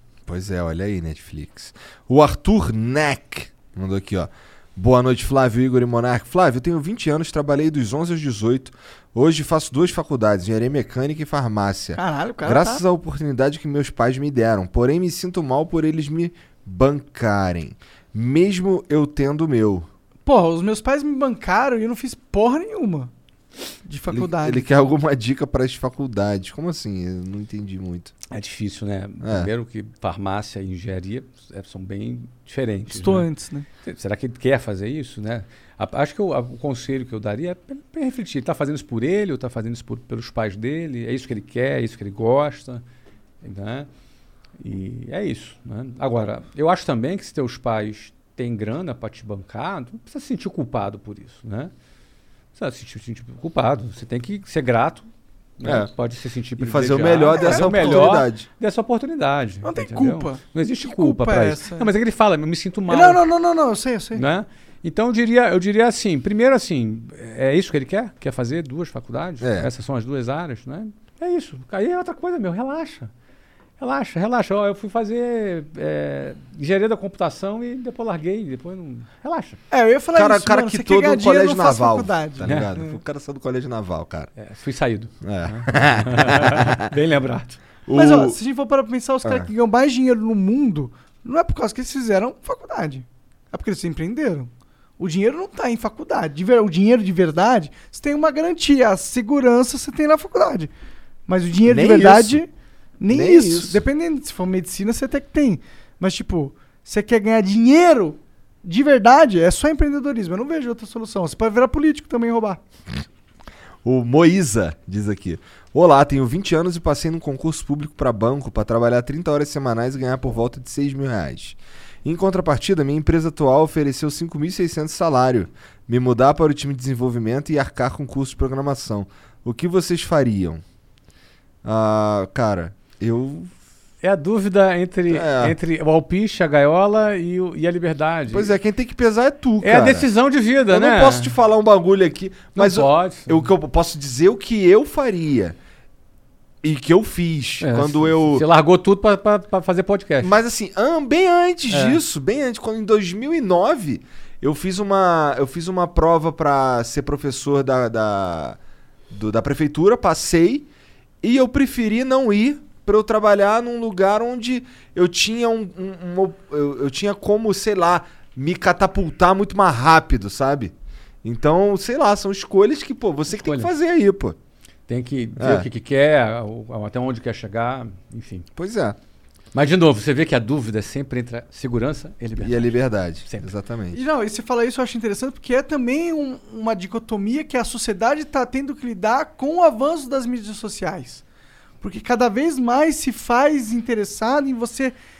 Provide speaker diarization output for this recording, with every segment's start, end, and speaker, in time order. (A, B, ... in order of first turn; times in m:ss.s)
0:00.2-0:19.9 A
0:11.9-0:12.8 B
0:20.2-0:23.1 B
0:23.8-0:24.7 B
0:24.1-0:28.1 A
0:28.3-0:33.3 C
0:29.2-0:29.5 A
0:32.9-0:33.7 B
0:33.8-0:42.8 C
0:43.4-0:43.9 C
0:44.6-0:51.7 C
0:52.5-0:55.1 C
0:55.6-1:03.2 C
0:55.6-0:55.9 A
0:56.6-0:58.4 A
0:57.3-0:57.7 B
0:59.6-1:01.9 B
1:02.9-1:04.2 B
1:04.1-1:13.1 C
1:09.4-1:09.7 A
1:13.8-1:19.6 C
1:19.7-1:23.0 B
1:20.1-1:24.3 A
1:24.4-1:27.6 C
1:25.2-1:26.8 A
1:27.8-1:28.4 A
1:27.9-1:40.7 B
1:41.3-1:42.5 B
1:41.6-1:42.4 A
1:43.0-1:52.6 B
1:43.1-1:43.8 A
1:53.8-2:10.6 A
2:11.6-2:13.5 A
2:14.0-2:18.5 C
2:15.1-2:15.6 A
2:18.3-2:20.1 A
2:19.6-2:21.3 C
2:20.7-2:25.6 A
2:22.6-2:23.5 C
2:26.6-2:28.4 A
2:27.6-2:30.3 C
2:30.2-2:38.6 A
2:31.7-2:32.0 C
2:39.1-2:40.7 A
2:41.2-2:54.4 A
2:53.3-2:53.7 C
2:54.9-2:58.4 C
2:55.4-2:55.7 A
2:58.6-2:59.0 A
2:59.5-3:03.5 C
3:02.4-3:04.0 A
3:03.9-3:11.2 B
3:11.8-3:15.0 B